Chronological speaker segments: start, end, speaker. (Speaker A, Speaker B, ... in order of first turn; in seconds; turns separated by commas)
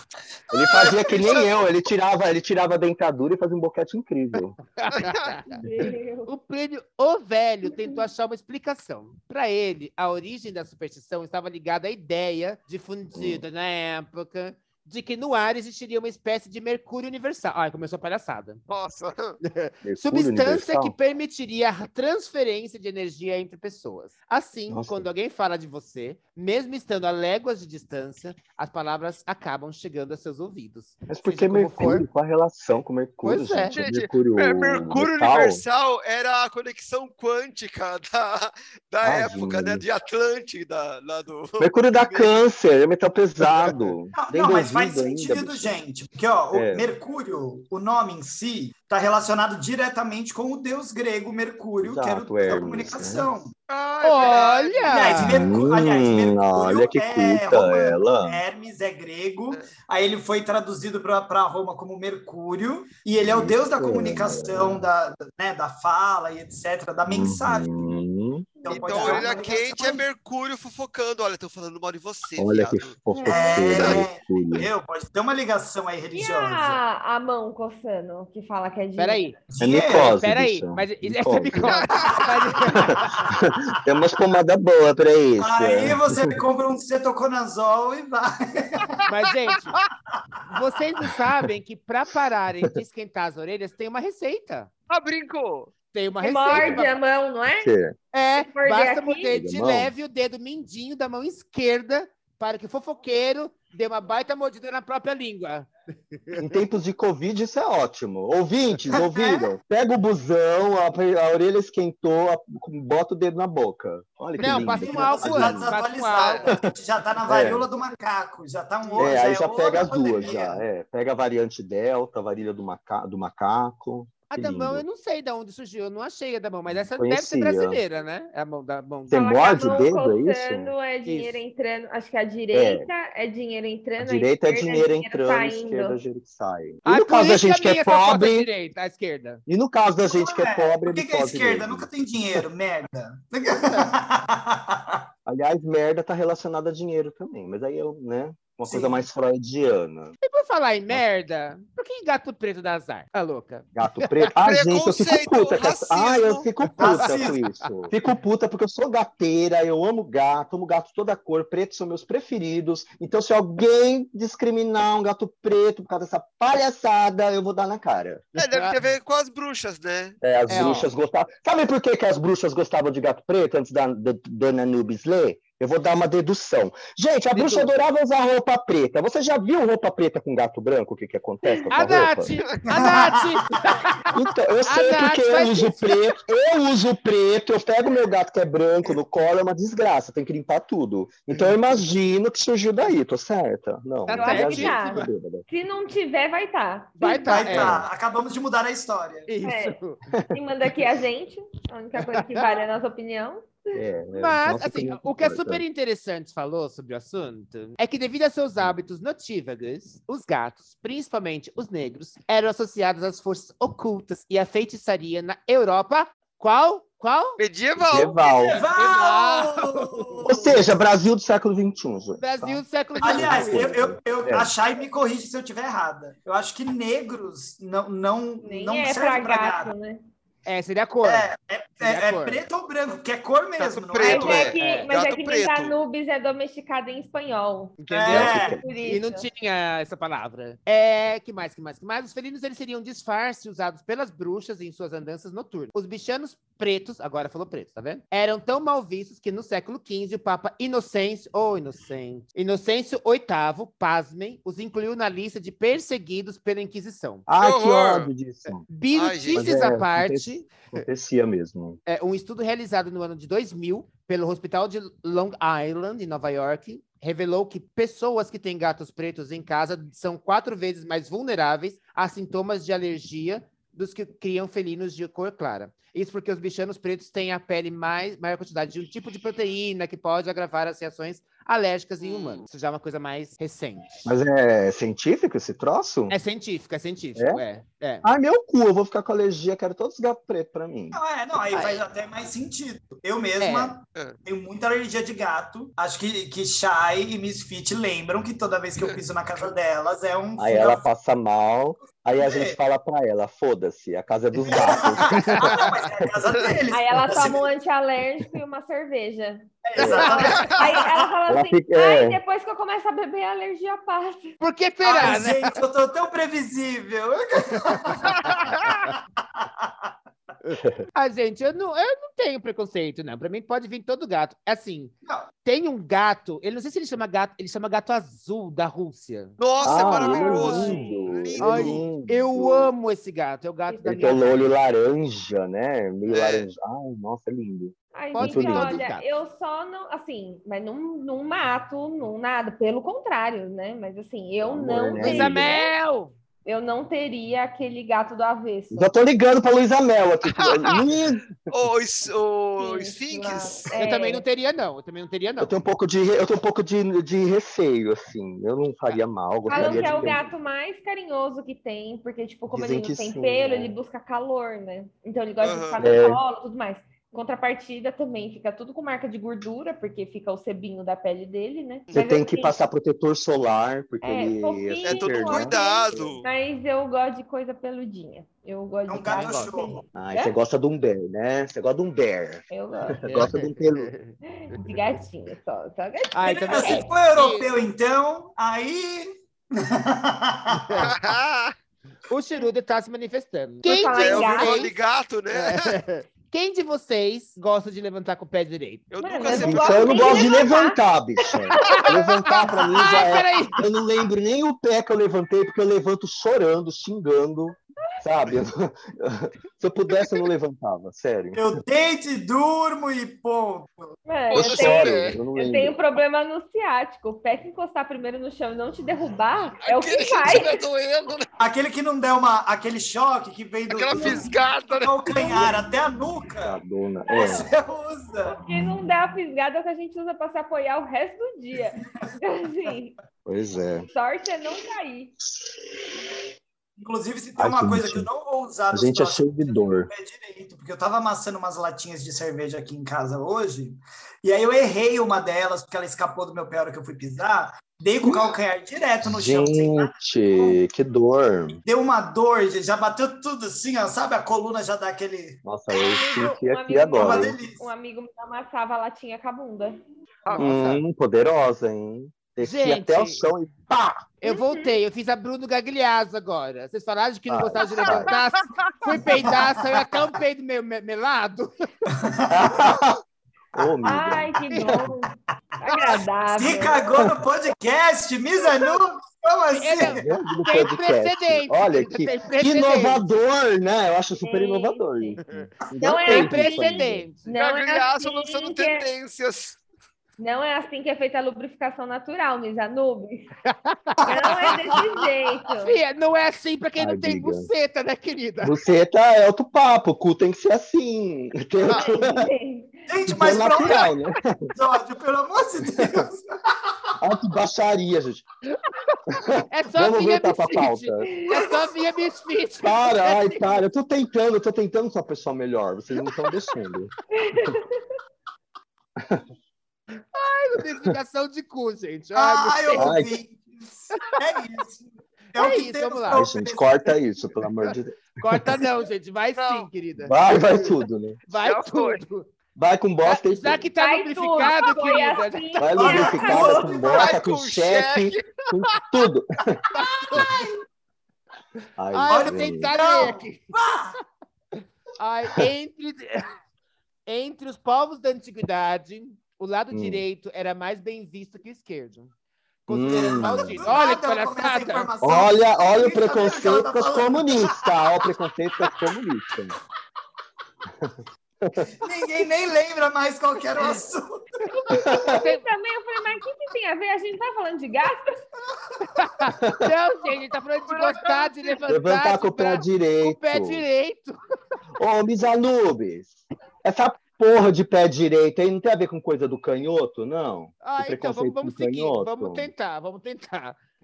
Speaker A: 0.5-4.6, Speaker B: 0.5-1.2, Speaker C: 1.1-1.5, Speaker D: 4.8-5.6, Speaker C: 5.0-5.3, Speaker E: 5.5-6.3, Speaker D: 6.2-18.6, Speaker E: 7.7-8.0, Speaker A: 13.1-13.4, Speaker C: 18.7-19.4, Speaker D: 19.4-32.0, Speaker A: 19.8-20.9, Speaker A: 24.7-25.1, Speaker A: 31.1-35.6, Speaker D: 33.2-33.8, Speaker C: 33.7-42.3, Speaker A: 39.0-39.8, Speaker A: 41.6-45.7, Speaker C: 43.4-43.7, Speaker B: 44.1-53.5, Speaker A: 46.5-46.9, Speaker A: 51.8-53.3, Speaker C: 53.7-55.1, Speaker D: 54.0-55.5, Speaker B: 54.2-68.0, Speaker A: 55.2-58.4, Speaker A: 63.2-64.9, Speaker A: 67.1-68.5, Speaker B: 68.6-70.0, Speaker C: 68.7-73.0, Speaker E: 68.7-69.3, Speaker A: 72.4-74.7, Speaker E: 73.1-73.7, Speaker B: 73.2-76.8, Speaker C: 73.8-74.0, Speaker E: 76.1-79.3, Speaker D: 79.0-79.3, Speaker B: 79.5-80.1, Speaker A: 79.6-81.8, Speaker D: 79.9-83.3, Speaker C: 81.6-82.2, Speaker B: 82.1-82.9, Speaker A: 82.7-86.3, Speaker B: 85.4-89.0, Speaker D: 89.1-89.7, Speaker D: 90.5-94.7, Speaker C: 94.9-95.7, Speaker D: 95.9-96.9, Speaker E: 96.2-97.7, Speaker A: 96.5-96.8, Speaker A: 97.6-97.9, Speaker D: 98.1-106.4, Speaker E: 98.3-99.3, Speaker A: 99.3-99.9, Speaker A: 106.3-115.7, Speaker B: 108.9-109.5, Speaker D: 114.4-116.4, Speaker B: 114.5-120.6, Speaker C: 116.2-116.5, Speaker A: 117.3-117.7, Speaker D: 118.8-119.2, Speaker A: 119.0-124.8, Speaker D: 124.3-129.2, Speaker A: 126.7-127.8, Speaker E: 129.1-136.0, Speaker A: 129.1-130.7, Speaker D: 131.1-131.4, Speaker A: 132.5-132.9, Speaker A: 134.0-138.5, Speaker D: 136.8-139.4, Speaker A: 139.5-142.4, Speaker B: 140.1-145.0, Speaker A: 145.2-150.1, Speaker B: 148.7-149.0, Speaker D: 150.2-154.3, Speaker A: 153.7-168.3, Speaker C: 154.4-156.5, Speaker D: 156.6-157.9, Speaker B: 156.8-157.4, Speaker D: 168.4-168.8, Speaker C: 168.4-170.2, Speaker A: 170.2-182.3, Speaker D: 170.5-170.9, Speaker D: 177.3-177.7, Speaker D: 181.7-184.1, Speaker B: 182.7-184.0, Speaker A: 184.1-195.4, Speaker D: 184.7-186.0, Speaker D: 194.1-195.0, Speaker E: 194.1-197.0, Speaker D: 197.0-197.8, Speaker B: 197.0-199.3, Speaker A: 197.5-197.9, Speaker D: 199.3-200.0, Speaker E: 199.4-199.8, Speaker E: 200.3-203.8, Speaker D: 202.0-202.4, Speaker A: 203.7-205.6, Speaker D: 204.1-217.4, Speaker C: 217.4-218.6, Speaker A: 217.8-218.6, Speaker D: 218.4-220.2, Speaker B: 218.5-220.5, Speaker A: 220.3-224.5, Speaker D: 222.2-223.8, Speaker B: 223.0-229.7, Speaker E: 228.4-230.0, Speaker D: 230.4-231.3, Speaker B: 231.0-234.6, Speaker D: 231.8-232.4, Speaker C: 233.6-235.8, Speaker E: 234.0-239.3, Speaker D: 234.2-234.9, Speaker D: 237.8-257.2, Speaker B: 237.9-238.6, Speaker A: 238.1-238.6, Speaker A: 257.3-258.7, Speaker C: 257.4-258.1, Speaker D: 258.4-260.5, Speaker C: 258.9-259.5, Speaker A: 259.3-261.8, Speaker D: 261.9-284.0, Speaker C: 282.0-282.4, Speaker A: 284.1-286.1, Speaker D: 286.1-288.1, Speaker A: 287.1-287.4, Speaker A: 288.0-291.0, Speaker B: 290.9-300.8, Speaker D: 291.5-291.8, Speaker D: 293.4-293.8, Speaker A: 300.4-306.1, Speaker B: 302.1-302.6, Speaker B: 304.4-307.5, Speaker D: 305.1-305.6, Speaker E: 306.7-314.4, Speaker B: 309.6-311.1, Speaker A: 309.8-310.2, Speaker D: 310.0-310.3, Speaker A: 311.3-312.2, Speaker D: 314.4-315.6, Speaker B: 314.8-319.9, Speaker D: 317.6-318.3, Speaker C: 318.1-318.8, Speaker D: 320.4-329.4, Speaker A: 320.6-320.8, Speaker C: 329.4-331.8, Speaker A: 329.6-332.7, Speaker E: 329.7-331.1, Speaker D: 331.4-334.3, Speaker E: 333.7-334.4, Speaker A: 333.8-338.9, Speaker C: 336.1-336.4, Speaker E: 337.9-345.7, Speaker D: 338.1-339.1, Speaker A: 344.4-345.6, Speaker D: 345.0-346.1, Speaker E: 346.4-348.9, Speaker A: 348.7-351.3, Speaker C: 350.4-350.8, Speaker C: 351.5-353.7, Speaker E: 352.6-354.2, Speaker D: 353.7-355.6, Speaker A: 355.4-360.3, Speaker E: 359.4-372.5, Speaker D: 359.6-360.1, Speaker A: 362.5-363.8, Speaker C: 365.4-365.8, Speaker A: 365.8-366.2, Speaker A: 371.9-376.1, Speaker E: 374.0-380.4, Speaker C: 374.8-376.2, Speaker B: 378.9-379.8, Speaker A: 379.9-382.4, Speaker E: 382.5-383.3, Speaker A: 383.0-383.9, Speaker D: 383.0-384.1, Speaker E: 384.3-386.9, Speaker D: 384.7-384.9, Speaker D: 386.1-387.5, Speaker B: 386.2-390.9, Speaker D: 390.5-390.9, Speaker C: 390.8-391.5, Speaker D: 392.1-394.7, Speaker E: 393.6-394.7, Speaker C: 393.9-395.8, Speaker D: 395.3-398.9, Speaker C: 398.9-400.5, Speaker E: 399.0-400.8, Speaker A: 399.3-411.5, Speaker E: 401.4-401.8, Speaker D: 401.6-403.6, Speaker B: 411.3-413.9, Speaker E: 414.0-420.6, Speaker C: 414.3-415.2, Speaker A: 414.3-415.8, Speaker C: 419.6-421.3, Speaker B: 421.4-426.6, Speaker C: 423.7-424.9, Speaker E: 424.0-424.2, Speaker E: 425.1-425.5, Speaker A: 426.4-427.5, Speaker E: 427.1-427.5, Speaker B: 427.1-428.3, Speaker E: 428.2-432.9, Speaker A: 433.2-433.9, Speaker E: 433.9-435.1, Speaker B: 436.8-450.6, Speaker A: 437.4-438.1, Speaker A: 438.7-439.9, Speaker A: 448.0-448.3, Speaker A: 449.0-451.6, Speaker B: 451.6-455.4, Speaker A: 455.4-457.4, Speaker E: 455.7-459.8, Speaker B: 457.0-457.6, Speaker C: 460.2-460.6, Speaker D: 460.3-460.8, Speaker A: 460.4-464.0, Speaker D: 462.4-463.2, Speaker D: 464.2-471.7, Speaker E: 464.2-464.7, Speaker A: 467.3-468.1, Speaker C: 467.9-468.7, Speaker B: 469.2-469.8, Speaker B: 471.9-472.8, Speaker A: 472.3-473.0, Speaker A: 473.5-474.4, Speaker B: 473.6-474.2, Speaker E: 473.8-476.9, Speaker D: 474.5-474.9, Speaker B: 475.6-480.1, Speaker E: 478.5-478.7, Speaker D: 479.5-483.0, Speaker A: 479.8-487.1, Speaker E: 484.2-485.2, Speaker D: 485.2-487.2, Speaker E: 485.8-488.9, Speaker C: 487.3-489.6, Speaker E: 490.2-493.3, Speaker D: 493.4-494.4, Speaker E: 494.1-495.8, Speaker B: 494.1-495.0, Speaker D: 495.6-498.5, Speaker A: 496.8-497.5, Speaker A: 498.4-502.3, Speaker C: 501.6-501.9, Speaker E: 501.7-502.8, Speaker B: 502.9-503.9, Speaker A: 503.1-504.5, Speaker B: 504.5-506.2, Speaker A: 505.7-506.1, Speaker A: 507.0-508.2, Speaker A: 509.1-511.1, Speaker D: 509.5-513.6, Speaker E: 511.1-511.6, Speaker A: 512.6-516.9, Speaker E: 517.1-518.0, Speaker A: 519.0-519.2, Speaker D: 520.0-522.9, Speaker B: 522.1-526.9, Speaker A: 522.7-523.1, Speaker D: 525.4-526.2, Speaker A: 526.1-528.5, Speaker D: 528.2-532.3, Speaker C: 529.4-529.6, Speaker A: 530.0-531.2, Speaker C: 531.4-532.0, Speaker A: 532.5-533.6, Speaker D: 533.0-536.0, Speaker E: 533.8-536.9, Speaker A: 535.6-539.6, Speaker B: 535.8-537.2, Speaker C: 536.9-538.8, Speaker D: 539.7-540.3, Speaker B: 539.8-540.6, Speaker A: 541.8-543.1, Speaker D: 541.9-543.5, Speaker B: 542.1-544.0, Speaker D: 545.0-546.3, Speaker D: 547.0-552.1, Speaker A: 549.7-550.0, Speaker D: 552.7-554.9, Speaker A: 552.7-553.7, Speaker B: 552.8-557.5, Speaker A: 555.0-559.5, Speaker A: 560.8-561.7, Speaker B: 561.8-564.4, Speaker D: 564.5-565.4, Speaker A: 564.7-565.2, Speaker E: 565.0-568.0, Speaker D: 568.9-574.2, Speaker A: 569.4-569.7, Speaker C: 570.8-571.3, Speaker A: 571.7-573.6, Speaker A: 574.8-582.5, Speaker D: 580.6-583.6